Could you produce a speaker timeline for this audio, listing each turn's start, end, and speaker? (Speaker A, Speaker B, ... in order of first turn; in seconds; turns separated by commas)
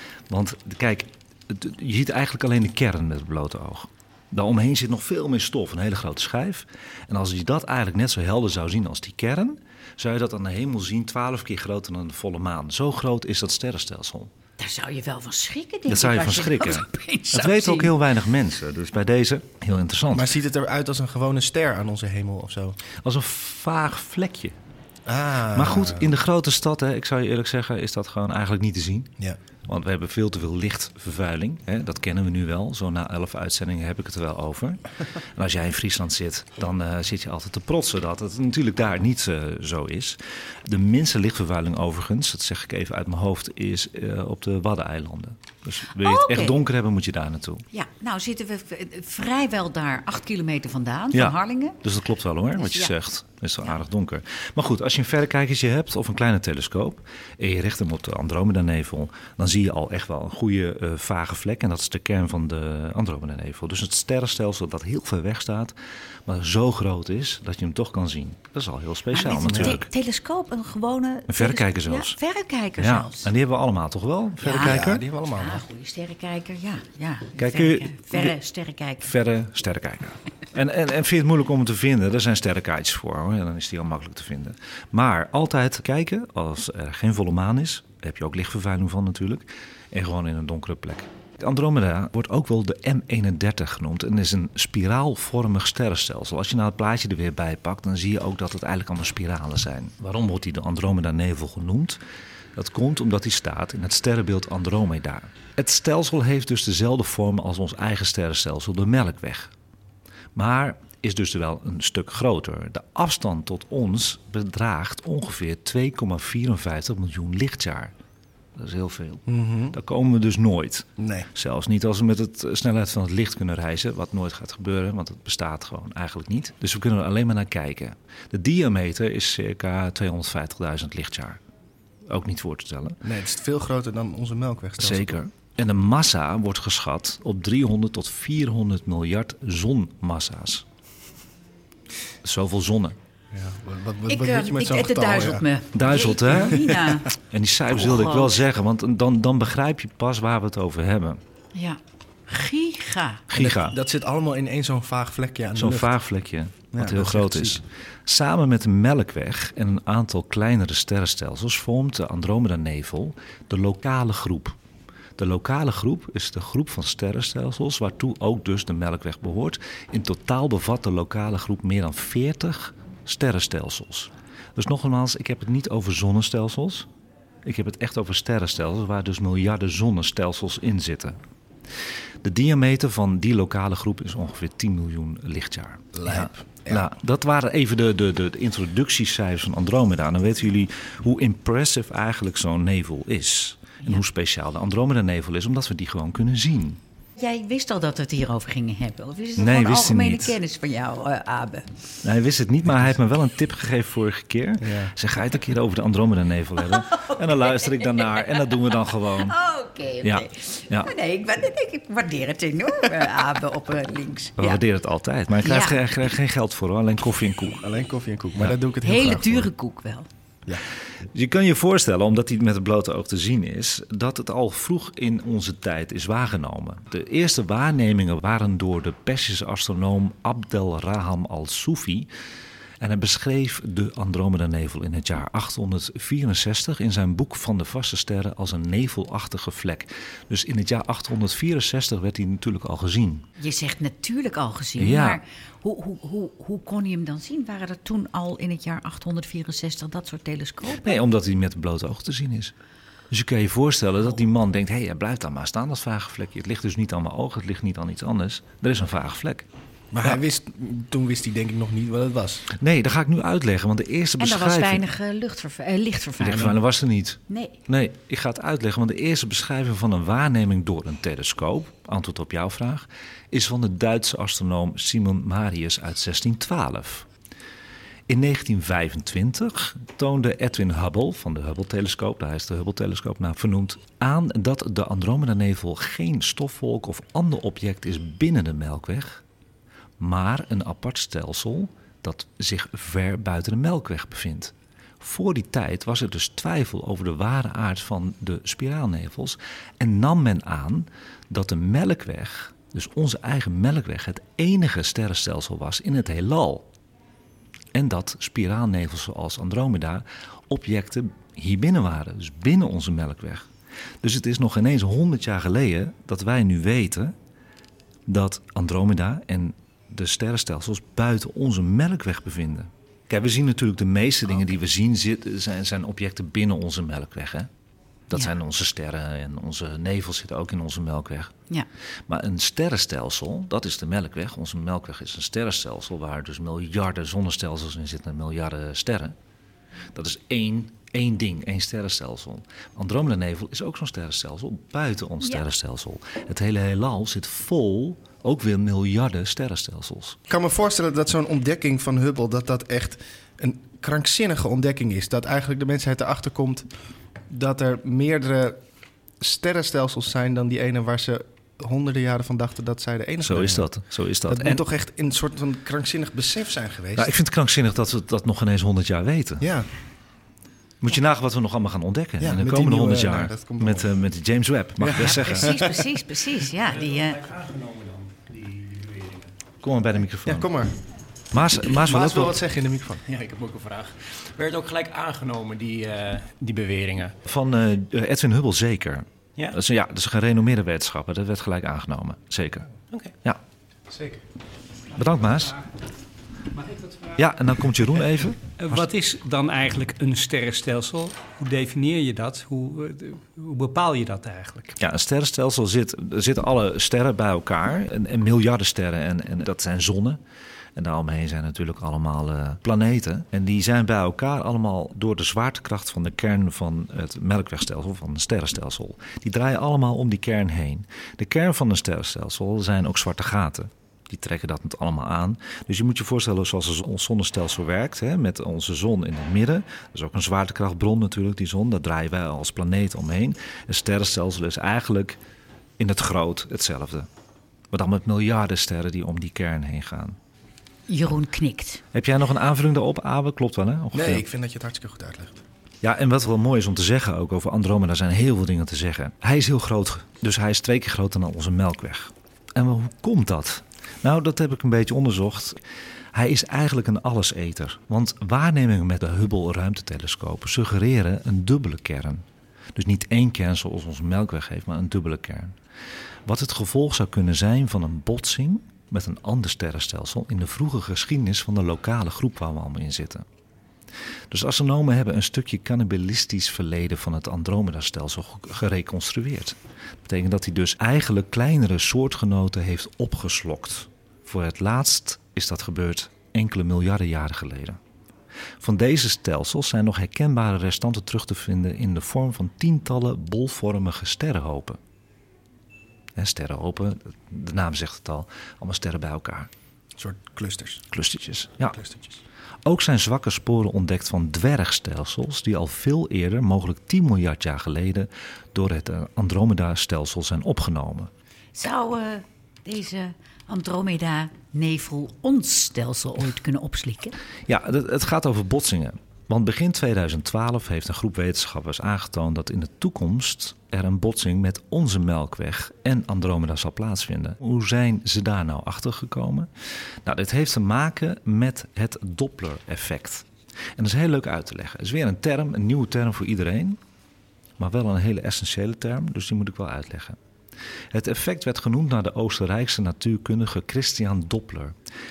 Speaker A: 0.3-14.3, Speaker B: 14.6-17.9, Speaker A: 15.9-20.4, Speaker C: 20.1-22.8, Speaker A: 23.0-24.6, Speaker C: 25.1-26.1, Speaker A: 25.6-29.1, Speaker A: 29.7-47.6, Speaker B: 46.0-46.6, Speaker B: 47.7-51.8, Speaker A: 51.1-65.7, Speaker B: 52.5-52.9, Speaker A: 66.3-69.9, Speaker B: 69.1-73.3, Speaker C: 69.5-69.8, Speaker A: 71.3-72.2, Speaker A: 72.8-75.0, Speaker B: 74.4-79.1, Speaker C: 74.6-75.6, Speaker A: 77.4-78.4, Speaker A: 79.0-102.0, Speaker A: 102.6-109.5, Speaker A: 110.3-117.9, Speaker A: 118.6-131.4, Speaker C: 119.3-119.8, Speaker C: 121.0-121.3, Speaker A: 132.1-133.0, Speaker C: 133.0-135.2, Speaker A: 134.8-140.7, Speaker A: 142.2-143.0, Speaker C: 143.3-145.4, Speaker B: 144.1-147.1, Speaker A: 145.7-151.2, Speaker B: 147.8-148.3, Speaker B: 151.6-153.2, Speaker A: 153.3-153.8, Speaker C: 153.3-155.9, Speaker A: 155.6-164.6, Speaker C: 156.7-157.6, Speaker A: 165.2-176.9, Speaker A: 177.4-181.2, Speaker A: 182.2-196.8, Speaker C: 185.9-186.9, Speaker B: 197.2-201.8, Speaker A: 199.4-200.4, Speaker A: 202.0-209.3, Speaker C: 204.6-204.9, Speaker B: 206.7-214.6, Speaker A: 210.0-210.9, Speaker A: 214.4-217.7, Speaker B: 215.4-215.8, Speaker C: 217.6-219.5, Speaker B: 218.8-220.1, Speaker A: 221.2-232.1, Speaker A: 232.8-243.3, Speaker B: 243.4-251.0, Speaker A: 244.8-245.2, Speaker A: 250.8-252.5, Speaker A: 253.1-259.4, Speaker C: 259.9-262.5, Speaker A: 262.6-264.8, Speaker B: 264.2-266.6, Speaker A: 266.2-277.1, Speaker B: 267.3-267.6, Speaker A: 278.1-289.2, Speaker A: 290.0-306.6, Speaker A: 307.7-313.5, Speaker A: 314.0-317.1, Speaker A: 318.1-327.5, Speaker A: 328.1-331.3, Speaker A: 332.1-339.2, Speaker A: 339.9-350.2, Speaker C: 350.3-356.7, Speaker C: 357.3-358.6, Speaker C: 359.2-363.7, Speaker A: 363.2-364.6, Speaker C: 364.3-367.1, Speaker A: 367.0-369.5, Speaker C: 369.4-369.7, Speaker A: 370.8-375.6, Speaker C: 372.2-373.9, Speaker C: 374.8-375.7, Speaker B: 375.0-377.2, Speaker D: 376.6-379.4, Speaker A: 379.6-380.5, Speaker C: 380.2-380.7, Speaker A: 381.3-382.4, Speaker C: 381.6-383.0, Speaker D: 383.1-387.1, Speaker A: 387.3-392.7, Speaker C: 393.9-394.2, Speaker A: 394.9-395.6, Speaker A: 397.2-398.9, Speaker E: 399.0-404.7, Speaker A: 404.8-410.2, Speaker A: 410.8-435.2, Speaker A: 435.8-437.1, Speaker A: 437.7-440.2, Speaker B: 440.9-441.8, Speaker A: 441.9-444.2, Speaker C: 443.9-445.4, Speaker A: 445.8-455.6, Speaker A: 456.1-462.2, Speaker A: 462.8-465.6, Speaker A: 466.3-473.2, Speaker A: 474.3-487.8, Speaker A: 488.6-494.8, Speaker A: 496.2-499.5, Speaker C: 500.0-500.9, Speaker A: 500.9-501.8, Speaker C: 501.7-502.2, Speaker A: 502.6-511.1, Speaker B: 511.6-517.2, Speaker A: 517.5-529.5, Speaker A: 530.0-533.3, Speaker A: 533.8-536.8, Speaker A: 537.6-540.2, Speaker A: 540.9-544.8